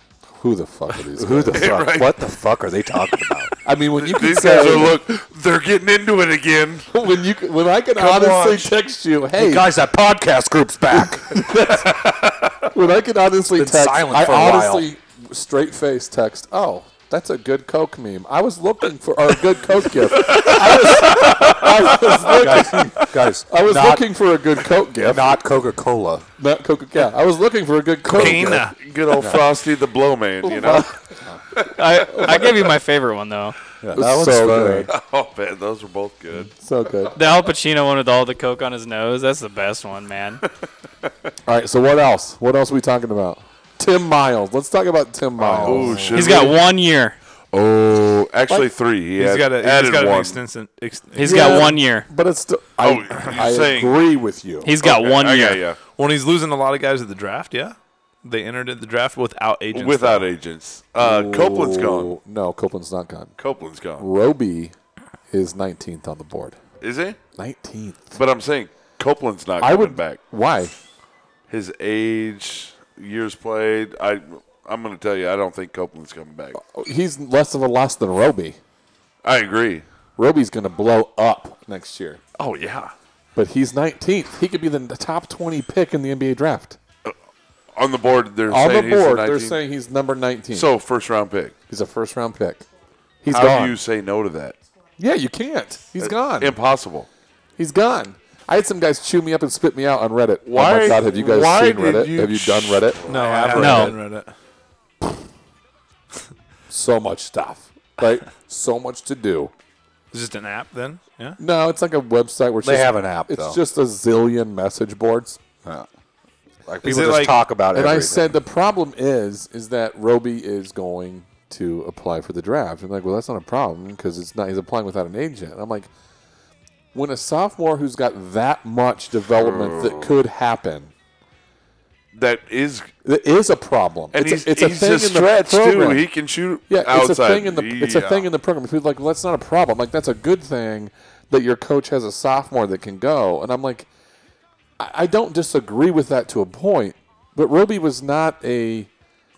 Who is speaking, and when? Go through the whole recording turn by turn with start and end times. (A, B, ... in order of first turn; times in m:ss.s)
0:00.4-0:01.8 A
0:01.1-0:03.5 B
0:01.5-0:02.2 C
0:03.6-0:05.0 A
0:04.0-0:06.9 C
0:06.9-0:09.7 A
0:08.0-0:08.7 B
0:09.3-0:11.4 B
0:10.9-0:11.9 A
0:12.0-0:12.5 C
0:12.6-0:25.5 A
0:13.5-0:14.9 B
0:20.2-0:20.6 C
0:22.1-0:24.1 B
0:25.0-0:26.3 B
0:26.4-0:29.5 A
0:28.1-0:28.8 D
0:28.1-0:28.4 B
0:28.2-0:31.0 C
0:30.4-0:31.0 A
0:31.6-0:32.5 C
0:31.7-0:33.6 E
0:32.1-0:32.4 A
0:33.8-0:34.9 B
0:33.9-0:34.9 A
0:34.9-0:36.5 C
0:36.4-0:37.1 A
0:37.2-0:40.4 E
0:41.5-0:46.5 A
0:45.5-0:46.0 B
0:45.6-0:46.6 C
0:46.1-0:47.2 E
0:47.5-0:50.4 C
0:49.2-0:51.7 D
0:51.1-0:52.1 E
0:51.2-0:54.7 A
0:52.8-0:54.0 C
0:54.6-0:55.6 E
0:54.8-0:55.8 C
0:55.9-1:00.3 D
0:59.7-1:02.2 C
1:01.0-1:03.3 A
1:03.4-1:04.0 C
1:04.0-1:04.8 A
1:05.3-1:06.6 A
1:06.8-1:07.2 C
1:07.4-1:08.2 A
1:08.2-1:10.2 C
1:09.6-1:10.8 A
1:11.5-1:16.6 C
1:16.6-1:18.6 A
1:19.2-1:19.8 C
1:20.2-1:22.2 A
1:22.4-1:22.9 C
1:23.4-1:26.8 A
1:27.8-1:29.6 C
1:28.5-1:30.7 A
1:30.5-1:31.6 C
1:31.7-1:32.6 A
1:33.2-1:33.8 A
1:33.3-1:34.6 C
1:35.0-1:36.6 A
1:36.0-1:37.1 C
1:37.6-1:43.9 A
1:40.4-1:43.0 C
1:43.1-1:43.9 B
1:43.1-1:44.3 D
1:43.6-1:44.0 E
1:46.7-1:49.5 A
1:50.1-1:51.4 D
1:51.4-1:55.4 A
1:52.6-1:53.6 B
1:56.7-1:58.3 B
1:56.8-1:57.4 D
1:57.7-2:05.9 A
2:06.9-2:10.9 A
2:09.4-2:10.1 C
2:12.1-2:12.9 C
2:13.0-2:16.1 A
2:14.1-2:18.2 C
2:16.7-2:23.9 A
2:24.8-2:28.9 A